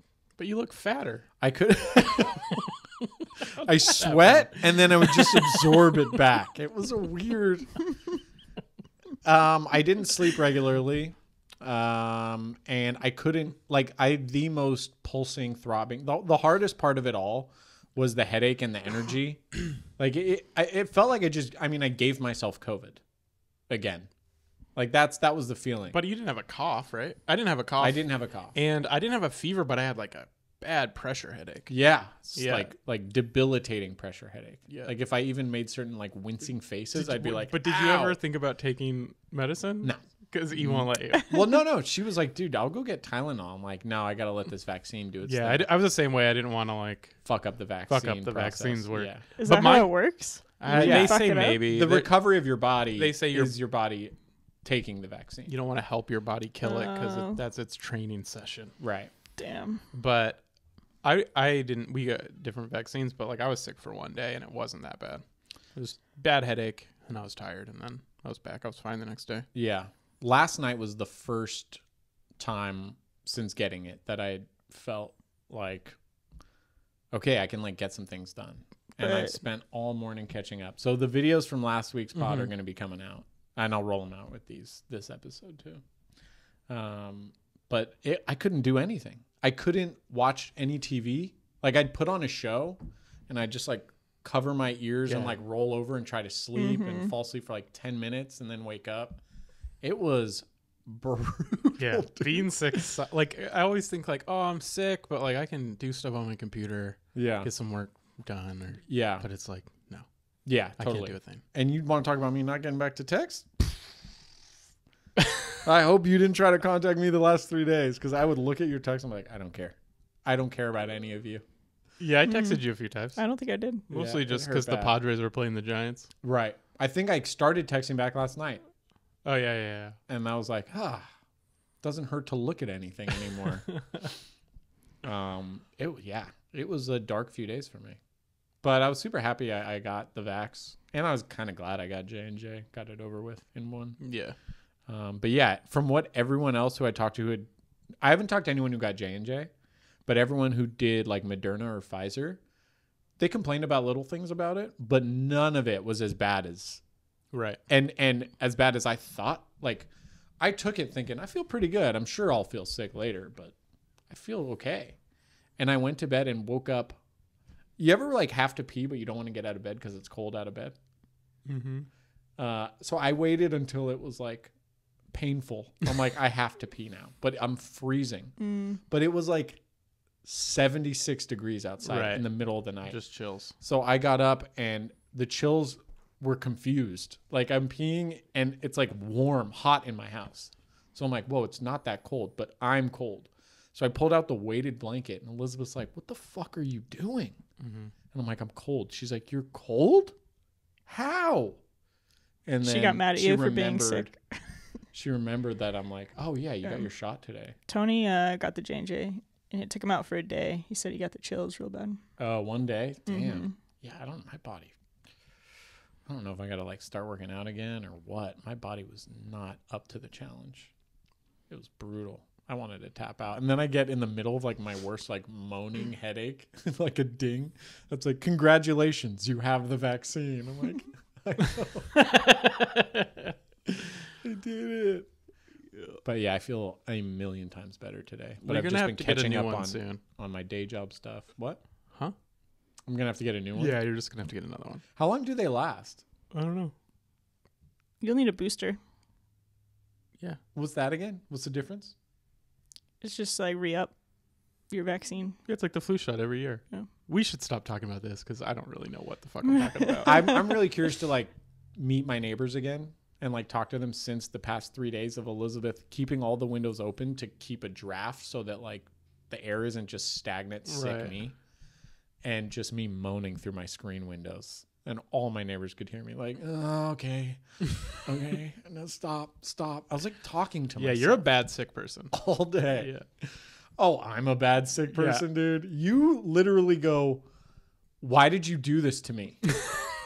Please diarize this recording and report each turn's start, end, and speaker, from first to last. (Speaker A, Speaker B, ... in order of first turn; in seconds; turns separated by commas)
Speaker A: 0.4-1.2, Speaker B: 1.4-2.6, Speaker A: 3.6-5.8, Speaker B: 3.6-8.0, Speaker B: 9.2-23.0, Speaker B: 23.7-24.1, Speaker B: 24.8-26.0, Speaker A: 25.9-31.7, Speaker B: 27.8-28.5, Speaker B: 31.7-38.2, Speaker A: 32.4-32.7, Speaker A: 36.9-41.3, Speaker B: 39.8-45.7, Speaker A: 45.2-47.2, Speaker B: 47.2-49.2, Speaker A: 47.9-53.5, Speaker C: 49.4-51.6, Speaker B: 50.7-55.5, Speaker A: 55.5-58.7, Speaker C: 56.6-57.4, Speaker B: 58.8-59.1, Speaker C: 59.4-59.8, Speaker A: 59.9-60.5, Speaker A: 61.0-69.5, Speaker B: 69.5-71.8, Speaker B: 72.4-76.0, Speaker B: 77.1-85.8, Speaker C: 79.0-79.4, Speaker A: 82.2-82.5, Speaker B: 86.7-99.2, Speaker A: 95.1-95.3, Speaker C: 96.6-97.1, Speaker B: 99.8-102.8, Speaker A: 101.8-110.1, Speaker B: 107.1-107.5, Speaker B: 108.9-109.2, Speaker B: 110.5-113.8, Speaker A: 110.8-111.4, Speaker B: 115.6-121.4, Speaker A: 122.0-123.2, Speaker C: 122.3-122.6, Speaker C: 123.2-123.8, Speaker A: 123.9-126.1, Speaker B: 123.9-124.9, Speaker B: 126.2-128.6, Speaker A: 129.2-130.0, Speaker B: 130.1-131.1, Speaker B: 131.8-133.8, Speaker B: 135.0-138.0, Speaker B: 138.6-144.0, Speaker A: 144.0-144.3, Speaker B: 144.9-147.5, Speaker B: 148.0-149.5, Speaker B: 150.1-152.4, Speaker B: 153.2-156.8, Speaker A: 157.3-157.6, Speaker B: 157.7-159.9, Speaker B: 160.4-163.5, Speaker B: 164.1-165.0, Speaker B: 165.6-167.0, Speaker B: 167.8-170.8, Speaker A: 171.4-171.9, Speaker B: 172.4-174.5, Speaker B: 175.1-178.3, Speaker C: 178.4-178.8, Speaker B: 178.9-179.6, Speaker B: 180.2-183.0, Speaker A: 181.8-182.3, Speaker A: 182.8-183.5, Speaker B: 183.6-197.4, Speaker A: 197.6-197.9, Speaker B: 198.1-200.1, Speaker B: 200.9-201.6, Speaker B: 202.4-204.1, Speaker C: 202.6-204.3, Speaker B: 204.9-207.5, Speaker C: 207.7-212.0, Speaker B: 212.2-214.7, Speaker C: 213.1-213.5, Speaker B: 216.1-220.7, Speaker B: 221.5-231.9, Speaker A: 231.9-233.3, Speaker B: 233.7-235.1, Speaker B: 236.0-241.6, Speaker A: 238.4-240.0, Speaker B: 242.8-243.8, Speaker A: 243.6-244.8, Speaker B: 244.9-246.0, Speaker A: 246.3-246.7, Speaker C: 248.0-248.8, Speaker B: 250.5-251.9, Speaker C: 253.0-253.9, Speaker C: 254.7-255.4, Speaker A: 255.4-260.4, Speaker C: 259.5-260.4, Speaker B: 260.0-271.4, Speaker A: 270.7-271.1, Speaker B: 272.2-281.2, Speaker A: 280.8-282.1, Speaker B: 282.1-287.2, Speaker A: 282.7-283.0, Speaker A: 284.9-285.2, Speaker B: 288.0-289.6, Speaker A: 289.6-289.9